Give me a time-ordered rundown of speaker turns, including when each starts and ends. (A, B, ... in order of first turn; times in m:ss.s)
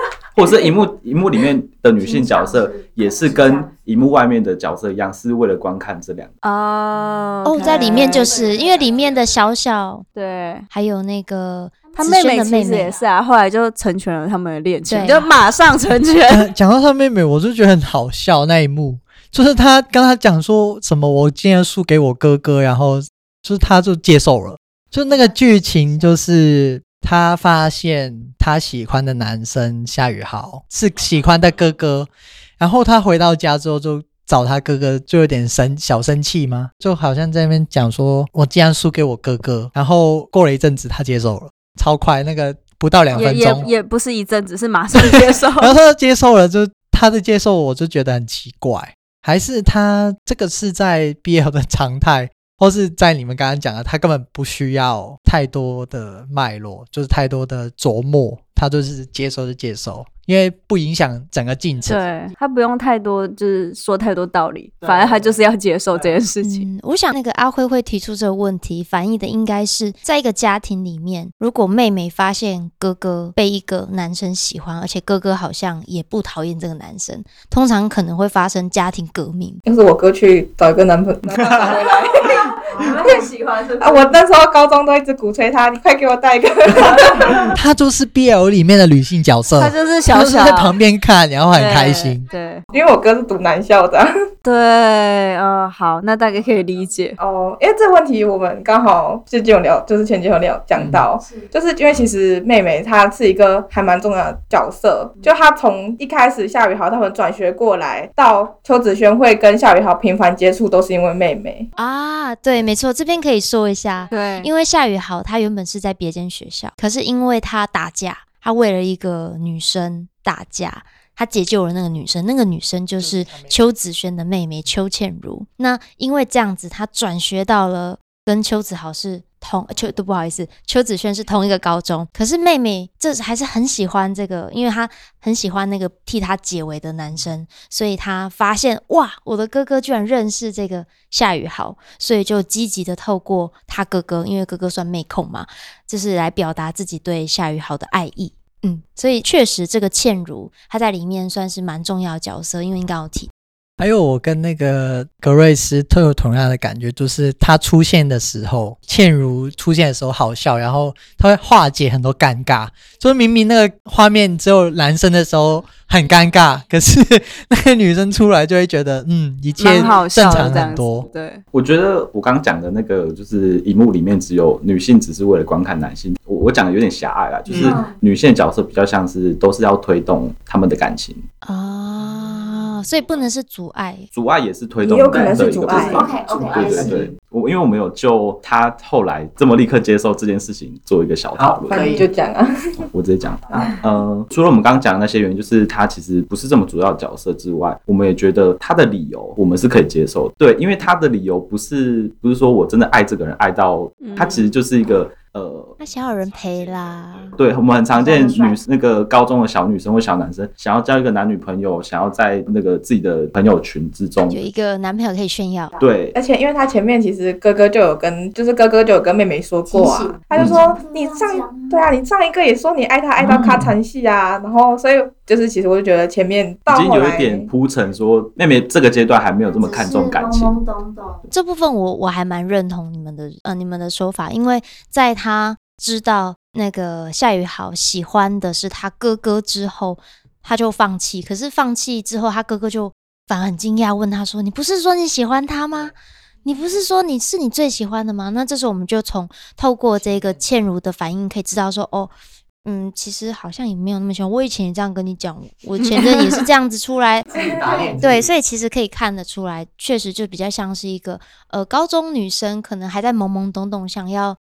0:00.3-0:06.3 A
0:02.0-0:03.7 B
0:06.4-0:08.3 C
0:07.4-0:10.0 D
0:07.6-0:09.3 B
0:10.2-0:10.6 C
0:10.7-0:12.9 D
0:12.0-0:16.5 C
0:14.9-0:15.3 D
0:16.3-0:43.7 E
0:25.1-0:26.1 B
0:43.1-0:45.7 C
0:45.0-1:02.1 E
1:01.8-1:06.7 C
1:04.8-1:05.4 F
1:06.4-1:19.6 D
1:19.6-1:22.0 G
1:21.5-1:24.2 C
1:22.8-1:23.1 G
1:23.8-1:27.5 G
1:27.5-1:32.3 E
1:29.6-1:30.8 C
1:31.5-1:32.6 C
1:32.7-1:34.1 G
1:34.4-1:37.2 C
1:37.2-1:51.7 G
1:41.1-1:41.5 B
1:51.8-2:33.3 D
1:54.1-1:54.5 C
2:03.0-2:03.6 E
2:33.8-2:51.1 E
2:49.6-2:51.4 C
2:51.5-3:01.2 A
2:57.5-2:57.8 F
2:57.6-2:58.0 B
3:01.4-3:04.1 D
3:04.1-3:12.0 A
3:04.8-3:06.1 G
3:05.1-3:07.2 F
3:05.8-3:06.9 B
3:11.3-3:12.1 F
3:11.7-3:12.5 G
3:12.9-3:25.8 A
3:13.5-3:13.8 F
3:24.0-3:24.4 C
3:25.8-3:27.4 D
3:27.3-3:34.4 A
3:27.9-3:28.6 B
3:34.3-3:35.7 D
3:35.8-3:36.2 A
3:36.1-3:47.5 G
3:39.7-3:41.9 B
3:40.3-3:40.6 A
3:43.2-3:43.7 E
3:46.7-3:50.6 A
3:49.4-3:51.2 B
3:51.3-4:17.3 D
4:15.8-4:16.4 C
4:17.3-4:18.3 F
4:17.4-4:17.9 G
4:18.0-4:24.4 D